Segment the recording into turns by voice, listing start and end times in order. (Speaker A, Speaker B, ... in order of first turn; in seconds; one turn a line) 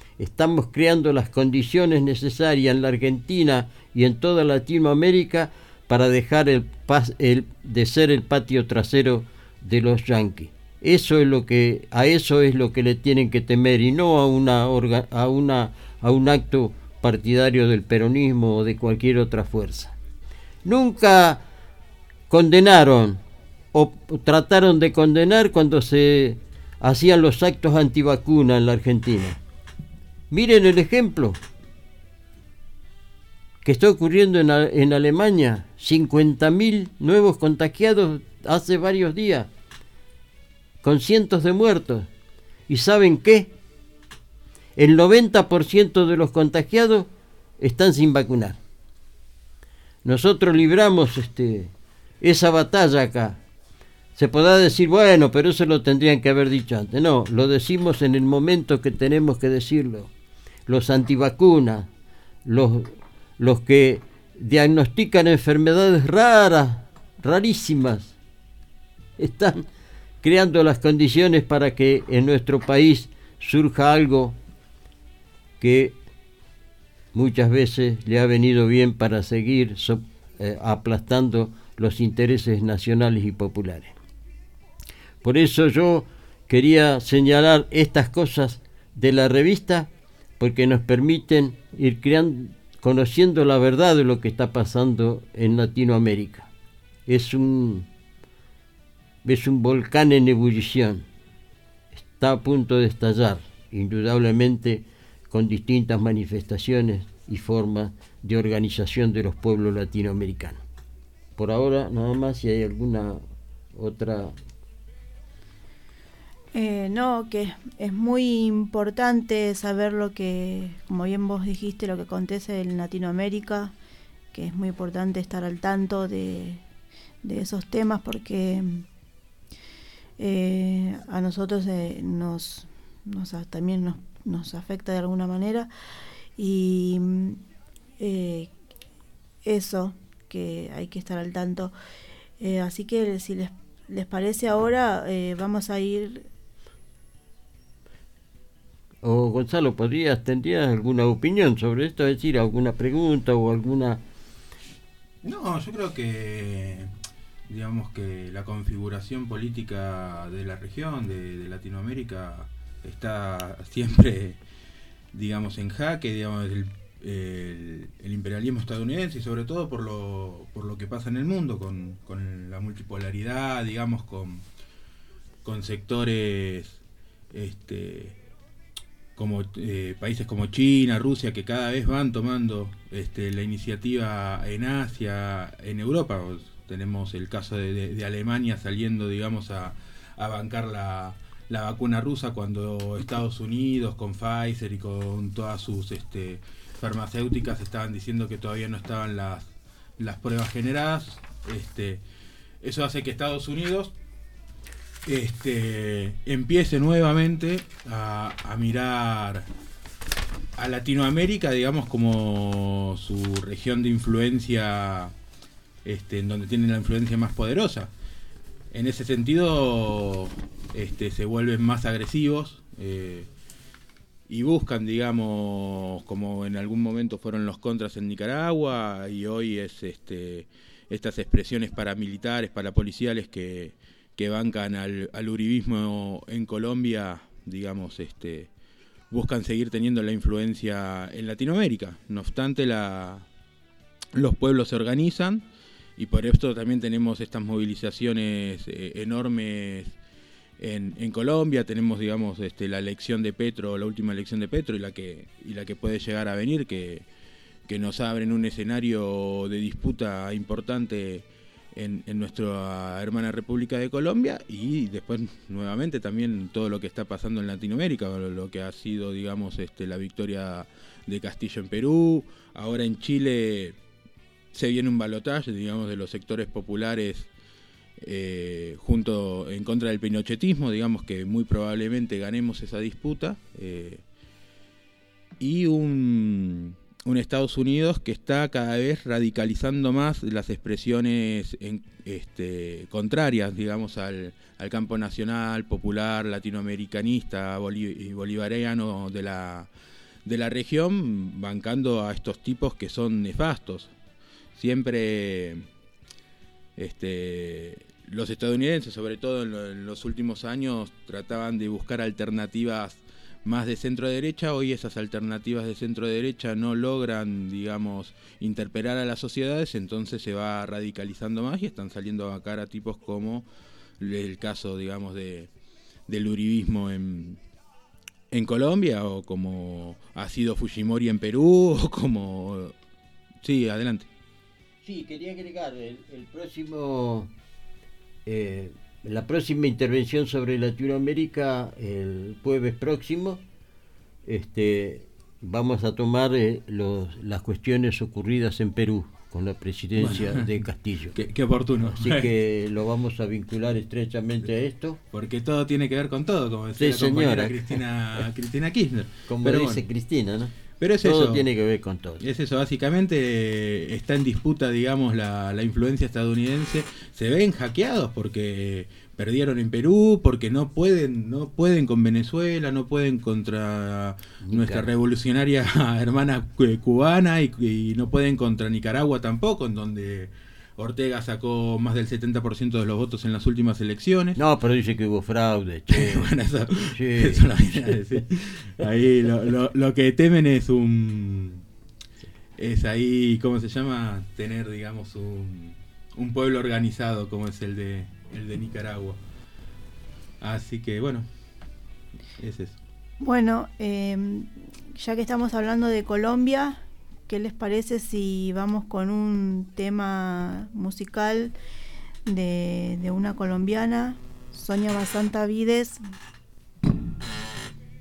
Speaker A: 0.2-19.9
Speaker A: 20.6-21.4
Speaker A: 22.3-23.2
Speaker A: 23.7-29.4
Speaker A: 30.3-31.4
Speaker A: 33.6-39.5
Speaker A: 40.8-42.1
Speaker A: 42.7-43.5
Speaker A: 44.8-48.6
Speaker A: 50.0-53.4
Speaker A: 54.2-60.1
Speaker A: 60.7-61.9
Speaker A: 62.5-68.2
Speaker A: 69.2-69.7
Speaker A: 70.2-74.4
Speaker A: 75.6-76.0
Speaker A: 77.1-84.0
Speaker A: 85.2-96.5
Speaker A: 97.1-97.9
Speaker A: 99.2-101.0
Speaker A: 101.9-110.6
Speaker A: 111.4-113.2
Speaker A: 113.8-114.3
Speaker B: 116.5-123.7
Speaker B: 124.3-126.6
Speaker B: 127.2-128.9
Speaker B: 130.2-135.7
Speaker B: 136.4-137.4
Speaker B: 138.0-138.5
Speaker B: 139.4-141.7
Speaker B: 142.4-146.3
Speaker A: 149.0-154.0
Speaker C: 155.2-156.9
Speaker C: 157.5-164.4
Speaker C: 165.1-174.4
Speaker C: 175.4-176.8
Speaker C: 177.3-178.2
Speaker C: 179.2-202.0
Speaker C: 202.6-203.9
Speaker C: 205.1-209.5
Speaker C: 210.6-215.1
Speaker C: 215.8-217.9
Speaker C: 218.7-223.3
Speaker C: 224.3-238.5
Speaker C: 239.1-243.3
Speaker C: 244.2-249.9
Speaker C: 250.6-257.1
Speaker C: 257.7-273.8
Speaker C: 274.5-277.3
Speaker C: 278.0-284.0
Speaker C: 285.4-299.7
Speaker C: 300.2-303.9
Speaker C: 304.6-305.7
Speaker C: 306.8-323.5
Speaker C: 324.0-325.5
Speaker C: 326.1-327.4
Speaker C: 328.3-332.8
Speaker C: 333.4-334.1
Speaker A: 334.8-337.3
Speaker A: 338.3-343.4
Speaker A: 344.3-351.2
Speaker C: 350.0-350.6
Speaker C: 351.1-352.3
Speaker A: 351.8-355.0
Speaker C: 355.1-359.8
Speaker A: 356.8-357.8
Speaker A: 359.3-362.2
Speaker C: 360.8-361.4
Speaker C: 362.2-384.4
Speaker A: 374.4-374.9
Speaker A: 384.4-386.3
Speaker C: 385.9-391.6
Speaker A: 386.9-388.0
Speaker C: 392.6-399.2
Speaker C: 400.4-401.3
Speaker C: 402.4-402.8
Speaker B: 403.2-411.6
Speaker B: 412.3-416.0